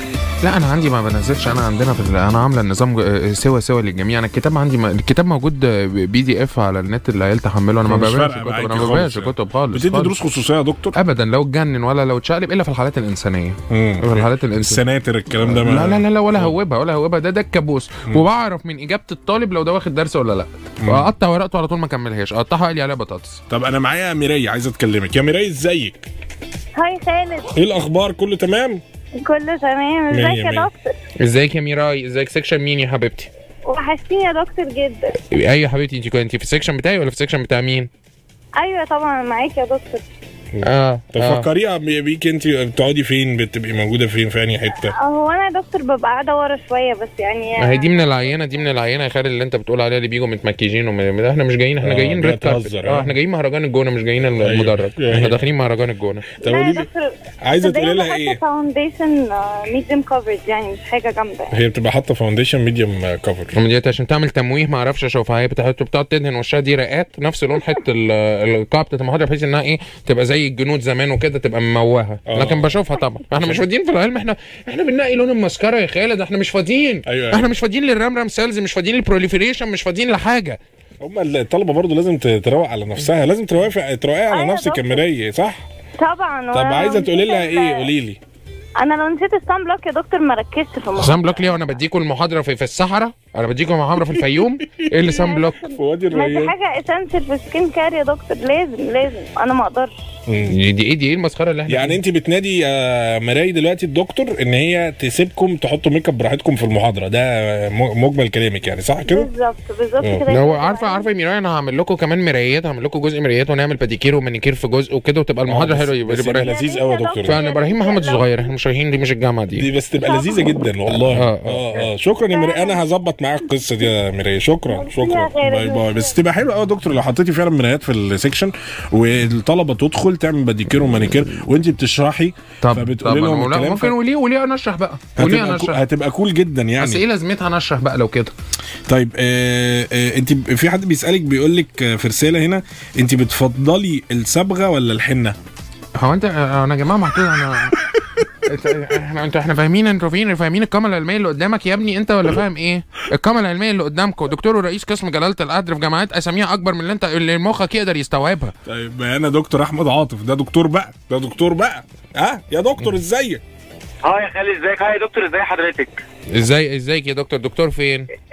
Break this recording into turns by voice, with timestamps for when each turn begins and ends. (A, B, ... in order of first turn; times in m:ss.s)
0:00.4-0:10.2 A
0:07.8-0:11.0 B
0:11.0-0:23.4 A
0:13.7-0:16.5 B
0:20.8-0:21.1 B
0:23.5-0:26.0 B
0:26.8-0:27.5 C
0:27.5-0:28.8 B
0:29.2-0:30.9 C
0:30.1-0:30.7 B
0:31.2-0:33.3 A
0:33.6-0:35.2 C
0:35.2-0:37.9 A
0:38.6-0:40.0 C
0:40.5-0:45.0 B
0:40.6-0:41.5 A
0:44.9-0:48.2 C
0:47.6-0:56.4 A
0:51.8-0:53.2 B
0:54.4-0:55.4 B
0:56.4-1:01.5 C
0:56.4-0:56.9 B
0:57.4-0:58.4 B
1:01.5-1:03.5 B
1:03.5-1:20.6 A
1:12.3-1:12.8 B
1:17.0-1:17.5 B
1:21.0-1:25.7 B
1:24.3-1:25.1 C
1:26.0-1:27.9 C
1:26.5-1:28.2 B
1:28.8-1:31.8 C
1:31.0-1:35.7 A
1:35.0-1:39.9 C
1:35.7-1:36.5 B
1:40.3-1:40.6 B
1:40.5-1:42.0 A
1:41.7-1:49.3 B
1:49.0-1:51.1 C
1:50.0-1:50.2 B
1:50.2-1:56.6 A
1:55.5-1:57.4 B
1:56.4-1:58.5 C
1:57.2-1:59.7 A
1:59.6-2:14.0 B
2:00.0-2:00.5 C
2:01.1-2:01.8 A
2:01.8-2:02.8 C
2:04.7-2:06.1 C
2:12.6-2:15.8 A
2:15.2-2:17.0 B
2:16.8-2:18.3 A
2:18.9-2:25.4 B
2:26.0-2:27.8 A
2:28.5-2:38.5 A
2:38.6-2:43.4 B
2:44.0-2:46.0 D
2:46.3-2:48.1 A